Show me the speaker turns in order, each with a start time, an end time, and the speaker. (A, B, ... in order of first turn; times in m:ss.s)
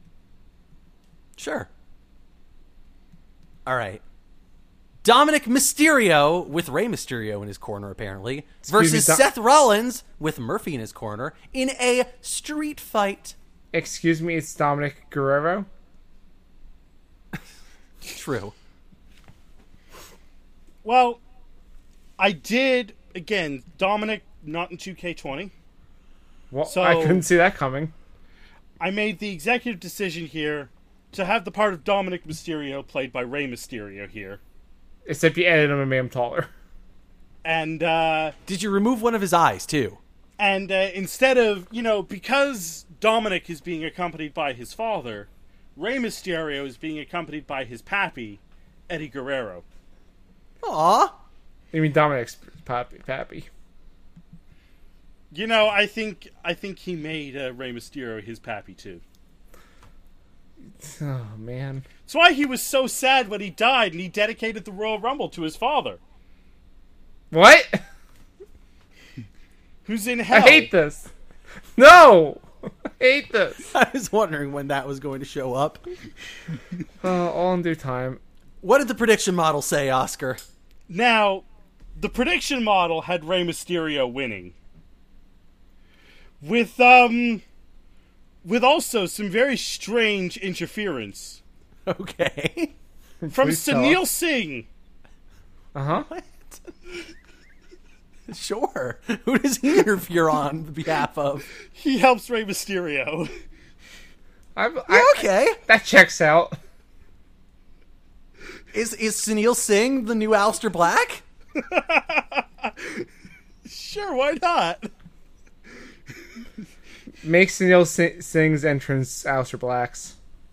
0:01.4-0:01.7 A
0:03.6-0:04.0 A
0:05.0-0:13.3 A
0:08.6-0:09.2 B
0:13.7-0:15.7 B
0:18.0-0:18.5 A
0:20.8-0:21.2 C
0:22.2-0:25.5 C
0:26.5-0:27.9 B
0:26.6-0:27.2 C
0:28.8-0:34.4 C
0:35.1-0:36.5 B
0:37.4-0:38.3 C
0:38.5-0:40.0 A
0:40.4-0:49.6 C
0:50.6-0:51.1 A
0:51.7-0:53.5 B
0:55.3-0:59.0 C
1:00.8-1:01.8 B
1:02.1-1:06.0 C
1:07.3-1:07.8 B
1:09.8-1:10.7 C
1:10.3-1:11.1 B
1:11.8-1:12.4 B
1:13.0-1:13.7 B
1:13.6-1:15.8 A
1:17.0-1:18.2 B
1:18.6-1:20.4 A
1:20.9-1:24.5 C
1:26.4-1:27.4 C
1:28.4-1:31.4 C
1:31.9-1:32.7 A
1:33.2-1:34.0 B
1:33.3-1:34.7 C
1:35.7-1:36.1 B
1:36.1-1:36.7 A
1:38.3-1:41.4 A
1:41.7-1:43.3 C
1:44.6-1:46.6 B
1:44.9-1:45.6 A
1:48.7-1:51.2 A
1:51.5-1:53.0 C
1:53.6-1:54.9 C
1:57.2-2:00.1 B